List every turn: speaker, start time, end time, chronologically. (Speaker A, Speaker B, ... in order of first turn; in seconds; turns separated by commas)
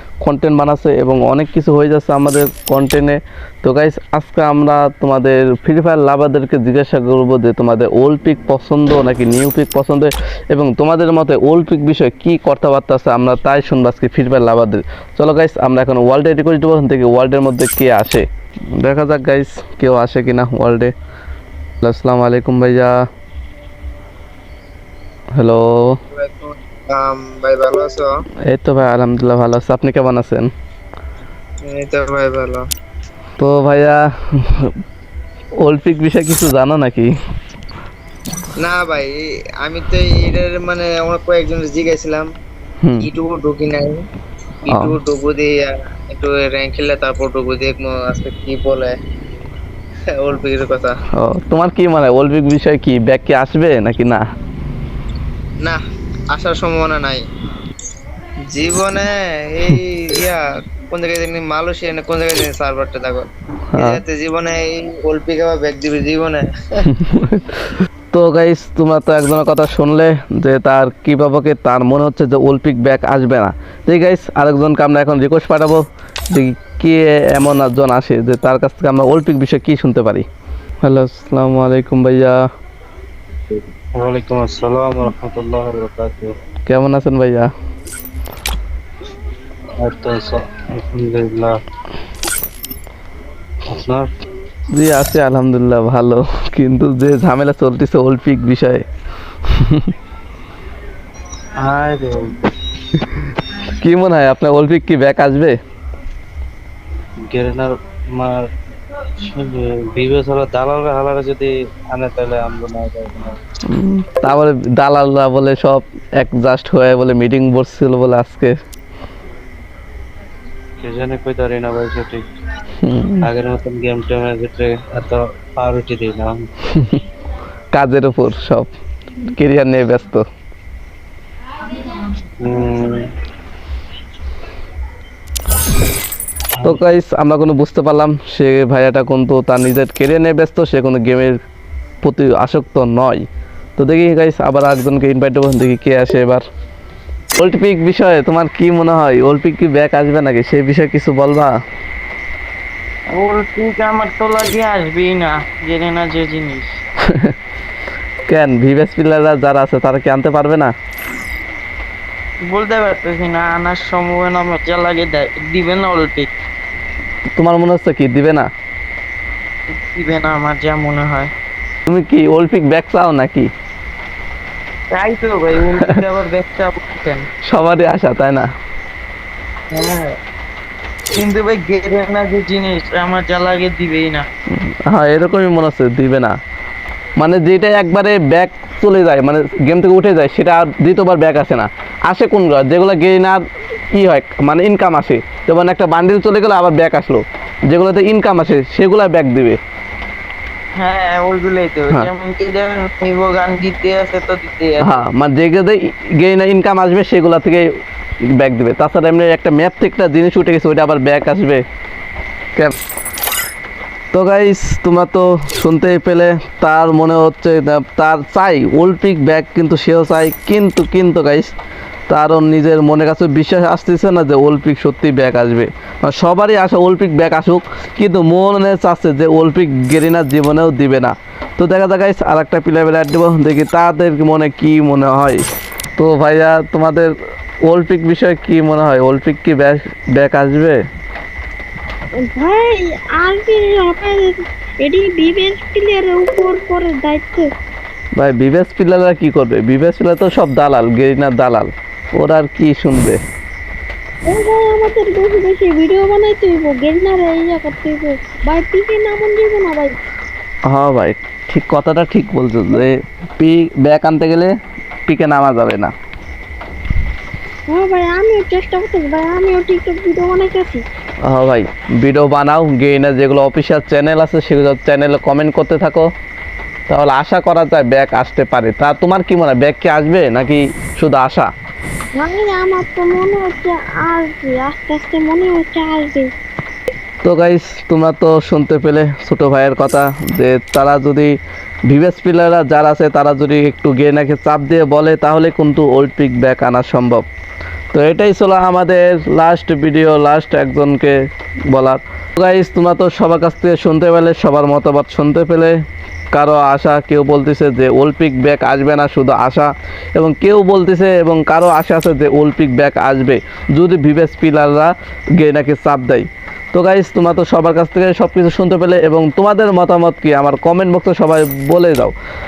Speaker A: 0.2-20.9, Speaker A: 21.8-23.0, Speaker A: 25.4-26.0, Speaker B: 26.1-28.1, Speaker A: 28.5-30.5, Speaker B: 31.6-32.6, Speaker A: 33.4-34.7, Speaker A: 35.6-37.1, Speaker B: 38.6-42.3, Speaker B: 43.0-44.0, Speaker B: 44.6-49.0, Speaker B: 50.1-50.9, Speaker A: 51.1-54.2, Speaker B: 56.3-57.2, Speaker B: 58.5-66.9, Speaker A: 63.7-64.0, Speaker A: 66.9-80.2, Speaker A: 80.8-82.4, Speaker C: 84.0-86.3, Speaker A: 86.7-87.5, Speaker C: 89.8-91.6, Speaker C: 93.7-94.1, Speaker A: 94.7-98.8, Speaker A: 99.5-99.9, Speaker C: 101.6-102.3, Speaker A: 103.7-105.6, Speaker C: 107.2-108.5, Speaker C: 109.2-113.4, Speaker A: 113.7-118.5, Speaker C: 120.8-122.3, Speaker A: 122.8-123.2, Speaker C: 123.2-126.5, Speaker A: 126.7-127.0, Speaker A: 127.7-128.7, Speaker A: 129.3-130.2, Speaker C: 132.4-133.1, Speaker C: 136.6-136.8, Speaker A: 136.6-141.4, Speaker A: 142.0-146.4, Speaker A: 147.4-151.6, Speaker D: 153.1-156.7, Speaker A: 157.1-157.3, Speaker A: 158.3-160.7, Speaker D: 162.4-166.3, Speaker A: 167.4-168.5, Speaker D: 169.7-171.3, Speaker A: 171.9-173.5, Speaker D: 174.9-177.3, Speaker A: 177.5-178.5, Speaker D: 179.7-180.1, Speaker D: 181.1-184.3, Speaker A: 184.9-186.3, Speaker A: 187.2-199.6, Speaker D: 200.8-205.0, Speaker A: 204.8-207.7, Speaker A: 208.3-211.6, Speaker A: 214.1-221.5, Speaker A: 222.1-235.4, Speaker A: 236.0-237.1, Speaker A: 237.7-240.8, Speaker E: 242.3-247.5, Speaker A: 248.2-253.2, Speaker E: 254.3-259.9, Speaker A: 260.7-264.5, Speaker A: 265.1-265.9, Speaker E: 267.7-270.8, Speaker A: 271.2-276.1, Speaker A: 276.9-281.5, Speaker E: 282.2-286.3, Speaker A: 287.2-291.4, Speaker A: 291.9-297.3, Speaker A: 297.9-305.8, Speaker A: 306.3-322.1